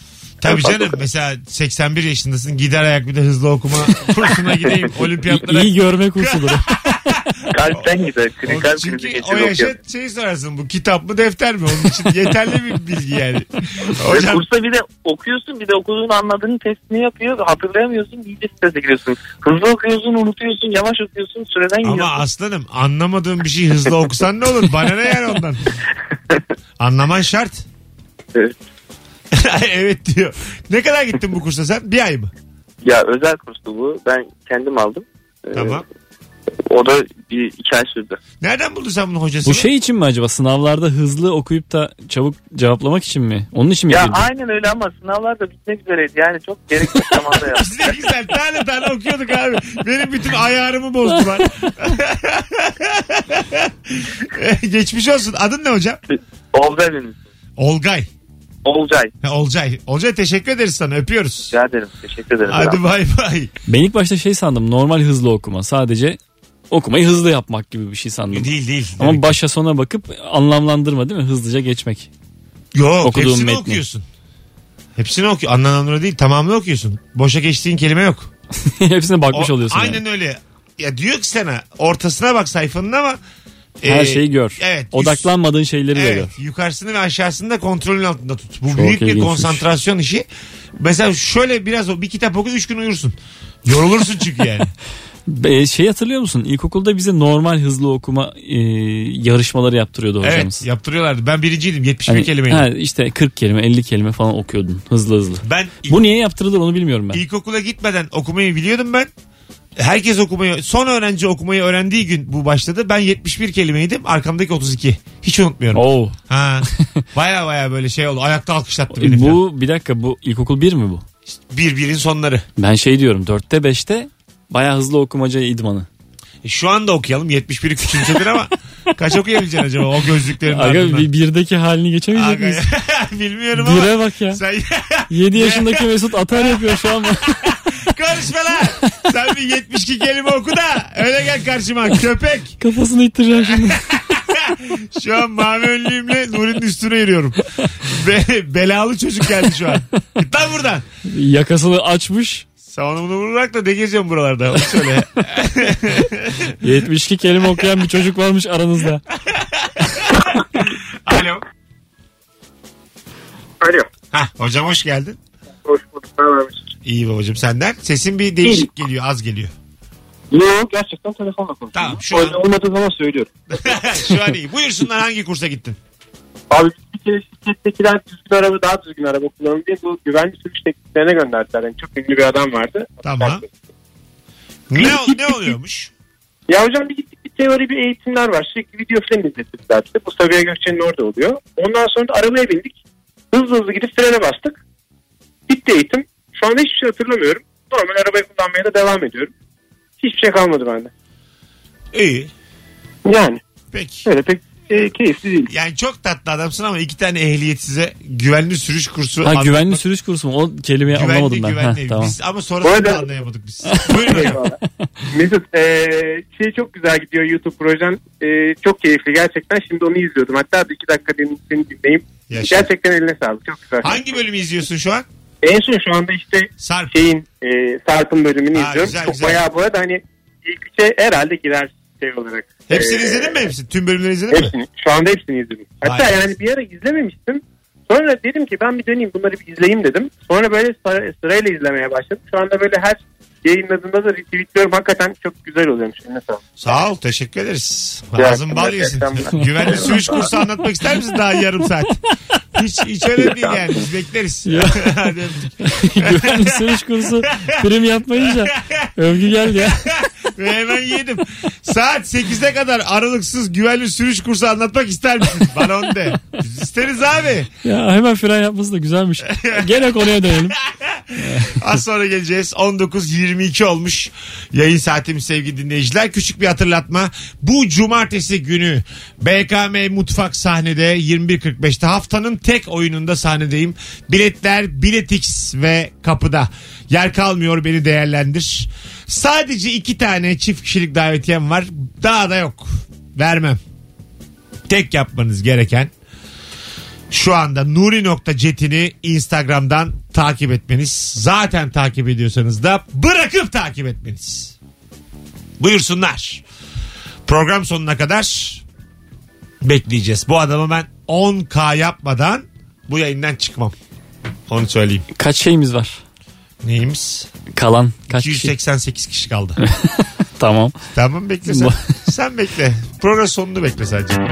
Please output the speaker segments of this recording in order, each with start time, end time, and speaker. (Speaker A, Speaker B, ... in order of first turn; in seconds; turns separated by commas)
Speaker A: 0.4-14.4, Speaker B: 0.4-1.0, Speaker C: 5.2-7.0, Speaker B: 7.5-9.8, Speaker B: 14.0-22.2, Speaker A: 21.8-25.6, Speaker A: 26.8-27.6, Speaker A: 29.3-32.3, Speaker B: 32.8-35.8, Speaker A: 35.5-35.9, Speaker B: 36.7-38.2, Speaker A: 38.4-39.7, Speaker C: 39.5-44.2, Speaker B: 43.9-47.8, Speaker A: 47.5-56.0, Speaker B: 56.1-57.2, Speaker A: 57.6-58.1, Speaker B: 58.6-59.1, Speaker A: 59.2-61.5, Speaker B: 61.5-62.8, Speaker A: 62.5-63.5, Speaker C: 63.7-66.2, Speaker C: 66.7-72.1, Speaker A: 68.3-69.4, Speaker A: 72.7-74.1, Speaker C: 73.0-73.8, Speaker A: 75.0-78.3, Speaker C: 78.6-80.0, Speaker A: 79.3-83.2, Speaker A: 83.8-85.3, Speaker C: 83.8-86.3, Speaker A: 85.9-90.3, Speaker C: 88.7-89.6, Speaker A: 90.8-94.7, Speaker C: 95.3-100.6, Speaker A: 100.2-102.7, Speaker C: 102.1-107.2, Speaker A: 105.4-106.1, Speaker A: 107.1-109.1, Speaker A: 109.8-119.4, Speaker C: 115.7-116.2, Speaker C: 118.9-121.0, Speaker A: 121.5-122.5, Speaker C: 122.6-125.9, Speaker A: 126.4-131.1, Speaker C: 130.5-132.7, Speaker A: 132.1-142.6, Speaker C: 133.6-134.4, Speaker C: 135.1-137.6, Speaker C: 142.6-143.8, Speaker A: 143.4-150.9, Speaker C: 151.1-152.5, Speaker A: 152.6-156.6, Speaker C: 156.6-159.0, Speaker A: 159.3-161.4, Speaker A: 164.1-165.2, Speaker D: 165.7-166.7, Speaker A: 166.8-169.5, Speaker D: 170.3-173.3, Speaker A: 171.7-172.4, Speaker A: 173.5-175.8, Speaker D: 176.5-183.5, Speaker A: 183.0-183.4, Speaker A: 184.7-185.9, Speaker D: 184.8-185.4, Speaker D: 186.5-192.8, Speaker D: 193.3-194.6, Speaker D: 195.5-199.3, Speaker D: 200.0-200.9, Speaker A: 201.9-202.3, Speaker D: 203.1-203.4, Speaker A: 203.7-204.1, Speaker D: 204.1-205.5, Speaker A: 205.5-209.8, Speaker C: 209.2-212.1, Speaker A: 210.9-214.4, Speaker D: 212.6-213.1, Speaker C: 213.7-214.9, Speaker D: 214.0-214.6, Speaker D: 215.1-224.0, Speaker A: 222.3-222.7, Speaker A: 223.8-225.1, Speaker D: 225.4-233.4, Speaker A: 226.6-227.0, Speaker A: 228.5-229.4, Speaker A: 232.7-234.5, Speaker D: 234.3-246.4, Speaker A: 235.8-236.1, Speaker A: 246.6-252.0, Speaker D: 248.2-250.3, Speaker C: 249.4-250.0, Speaker A: 252.6-267.5, Speaker C: 254.4-259.8, Speaker C: 267.6-270.6, Speaker A: 269.3-293.6, Speaker C: 271.2-271.7, Speaker A: 294.7-295.9, Speaker A: 297.1-304.6, Speaker A: 305.6-306.4, Speaker A: 307.3-308.6, Speaker A: 309.6-313.8, Speaker A: 314.5-315.1, Speaker C: 315.2-316.0, Speaker A: 316.6-317.3, Speaker C: 317.5-318.5, Speaker A: 318.1-319.6, Speaker C: 319.6-320.7, Speaker A: 320.9-324.2, Speaker C: 321.5-321.9